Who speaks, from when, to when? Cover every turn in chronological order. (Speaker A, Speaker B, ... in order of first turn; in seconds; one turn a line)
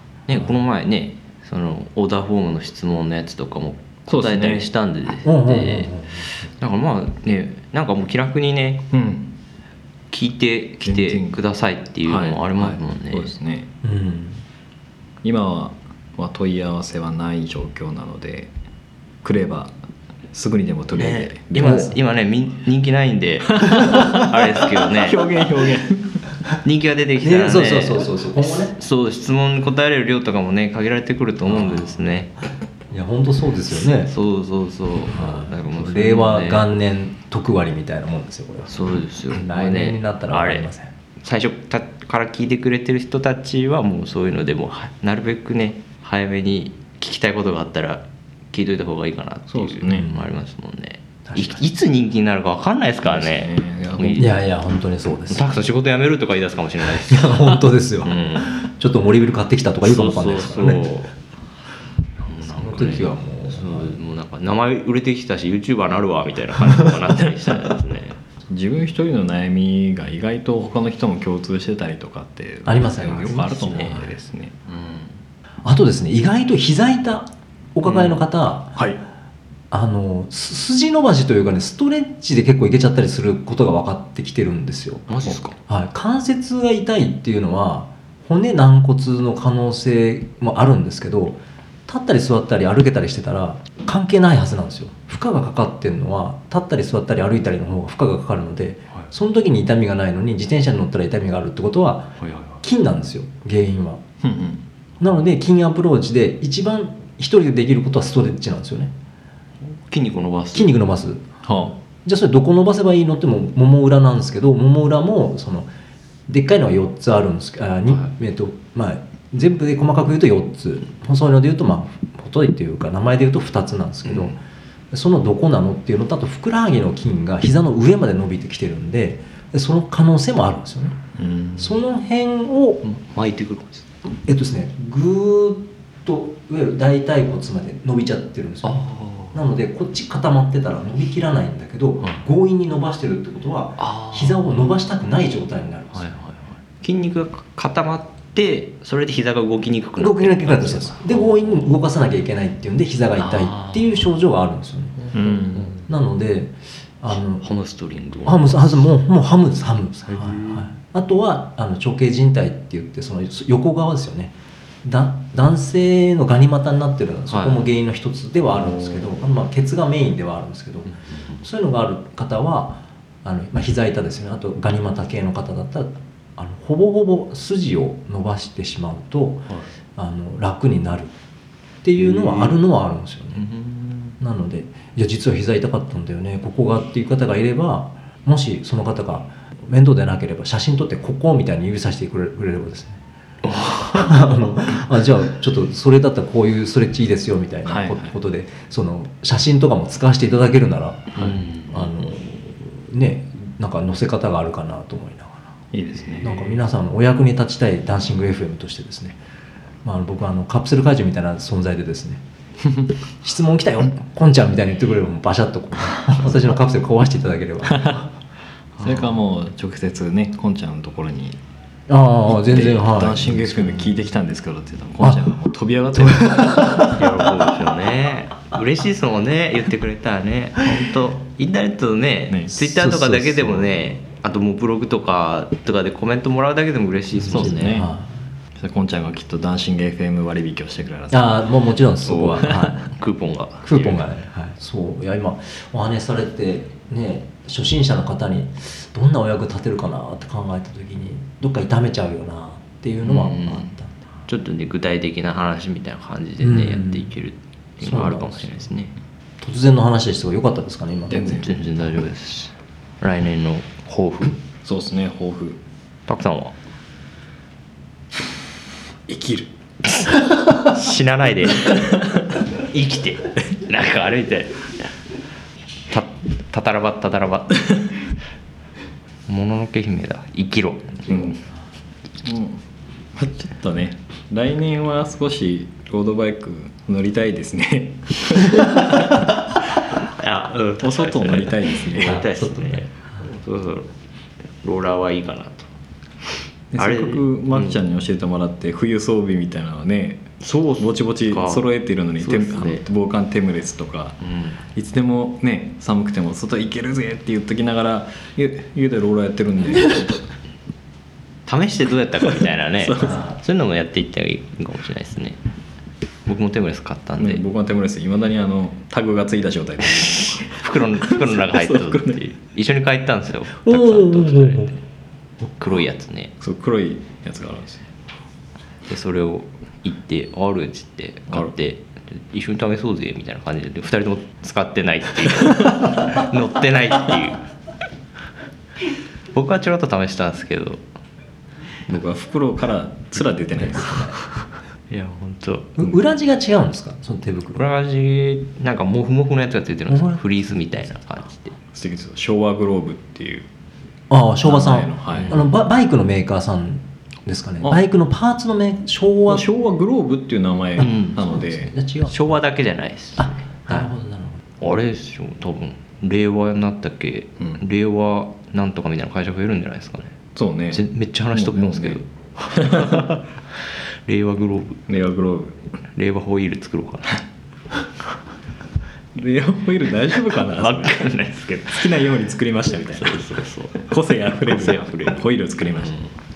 Speaker A: 0.3-8.9
Speaker B: 4.1-4.7
Speaker C: 5.2-6.3
Speaker B: 8.9-9.3
Speaker A: 10.1-13.3
Speaker B: 10.8-11.4
Speaker B: 12.0-13.7
Speaker C: 13.8-14.4
Speaker B: 15.2-18.5
Speaker B: 19.2-19.7
Speaker B: 20.3-21.9
Speaker A: 20.9-25.3
Speaker C: 21.6-21.9
Speaker B: 23.6-26.2
Speaker A: 26.6-28.1
Speaker C: 27.2-28.7
Speaker A: 28.7-32.3
Speaker C: 31.4-31.9
Speaker C: 32.9-34.1
Speaker A: 34.1-36.7
Speaker C: 35.1-40.9
Speaker A: 38.7-40.7
Speaker A: 41.2-54.4
Speaker B: 49.5-50.1
Speaker C: 49.9-50.2
Speaker C: 51.2-51.6
Speaker B: 53.0-54.4
Speaker C: 54.2-55.5
Speaker A: 55.3-58.6
Speaker C: 57.1-60.9
Speaker A: 59.8-61.1
Speaker A: 62.2-68.2
Speaker C: 62.5-63.9
Speaker B: 68.5-74.7
Speaker C: 72.7-74.0
Speaker A: 73.2-74.0
Speaker A: 74.7-75.0
Speaker C: 75.6-78.8
Speaker A: 77.9-78.2
Speaker C: 79.7-85.1
Speaker A: 85.1-85.5
Speaker C: 85.7-104.0
Speaker A: 102.2-102.6
Speaker B: 104.2-104.6
Speaker C: 105.0-108.9
Speaker A: 109.7-110.7
Speaker C: 110.5-111.2
Speaker B: 111.4-111.7
Speaker C: 112.0-115.7
Speaker C: 116.3-124.4
Speaker A: 124.0-124.3
Speaker C: 124.9-130.9
Speaker B: 131.2-131.8
Speaker C: 131.6-132.8
Speaker A: 132.8-133.9
Speaker C: 134.2-146.1
Speaker A: 138.6-139.4
Speaker A: 143.8-144.5
Speaker A: 145.9-151.8
Speaker C: 150.0-155.0
Speaker A: 153.2-154.1
Speaker A: 155.0-155.8
Speaker B: 155.1-155.7
Speaker C: 155.9-157.4
Speaker A: 157.4-158.9
Speaker C: 158.2-181.1
Speaker A: 160.1-160.7
Speaker A: 167.3-167.6
Speaker A: 168.5-169.1
Speaker A: 170.9-171.4
Speaker C: 181.8-183.4
Speaker A: 182.0-182.6
Speaker A: 183.3-184.2
Speaker C: 184.2-193.0
Speaker A: 193.4-194.2
Speaker C: 193.9-205.5
Speaker B: 197.7-198.1
Speaker A: 201.1-201.9
Speaker B: 205.7-206.4
Speaker C: 206.2-209.2
Speaker C: 209.8-212.2
Speaker C: 213.2-218.0
Speaker B: 217.7-218.0
Speaker A: 218.8-219.1
Speaker B: 218.8-221.4
Speaker C: 221.9-223.9
Speaker B: 222.3-226.8
Speaker C: 225.0-225.3
Speaker C: 225.9-227.0
Speaker A: 226.8-237.8
Speaker B: 232.3-232.6
Speaker C: 232.6-233.8
Speaker C: 237.2-238.1
Speaker B: 237.2-237.9
Speaker B: 238.6-241.5
Speaker C: 241.1-242.8
Speaker B: 242.0-242.8
Speaker A: 242.9-244.0
Speaker C: 243.6-253.9
Speaker A: 253.0-253.7
Speaker A: 254.3-258.9
Speaker C: 256.4-257.1
Speaker C: 257.8-258.6
Speaker C: 259.4-261.4
Speaker B: 261.1-261.6
Speaker A: 261.1-264.4
Speaker B: 264.6-265.6
Speaker A: 266.1-266.5
Speaker B: 269.1-269.5
Speaker A: 269.9-271.9
Speaker A: 272.6-274.7
Speaker A: 275.9-277.6
Speaker A: 279.3-281.1
Speaker B: 281.1-281.4
Speaker B: 282.2-282.6
Speaker B: 283.1-289.2
Speaker A: 289.9-293.9
Speaker B: 290.8-292.2
Speaker C: 292.0-292.9
Speaker A: 294.6-295.7
Speaker B: 296.7-304.2
Speaker A: 296.8-297.8
Speaker A: 300.4-301.7
Speaker A: 302.2-302.8
Speaker A: 304.2-304.6
Speaker B: 304.7-310.2
Speaker A: 311.4-315.4
Speaker B: 312.8-313.2
Speaker C: 313.0-313.4
Speaker A: 316.2-317.4
Speaker B: 317.2-322.3
Speaker A: 320.0-324.8
Speaker C: 323.6-324.7
Speaker A: 325.4-326.3
Speaker B: 326.4-327.9
Speaker A: 328.9-337.4
Speaker A: 339.3-340.8
Speaker B: 341.9-344.2
Speaker C: 343.6-344.2
Speaker A: 344.9-345.8
Speaker C: 345.8-347.6
Speaker A: 347.5-351.5
Speaker C: 349.9-350.2
Speaker B: 351.7-353.5
Speaker C: 354.1-359.4
Speaker B: 354.4-355.4
Speaker A: 355.1-355.4
Speaker B: 359.3-361.7
Speaker A: 360.8-361.2
Speaker C: 361.3-362.4
Speaker A: 362.1-363.4
Speaker C: 363.2-364.4
Speaker A: 364.6-370.1
Speaker B: 370.4-372.0
Speaker A: 370.7-374.8
Speaker B: 372.5-373.1
Speaker B: 374.9-375.6
Speaker A: 375.9-377.2
Speaker B: 379.1-386.1
Speaker A: 380.5-381.9
Speaker A: 382.9-383.9
Speaker A: 384.4-385.2
Speaker A: 385.8-386.1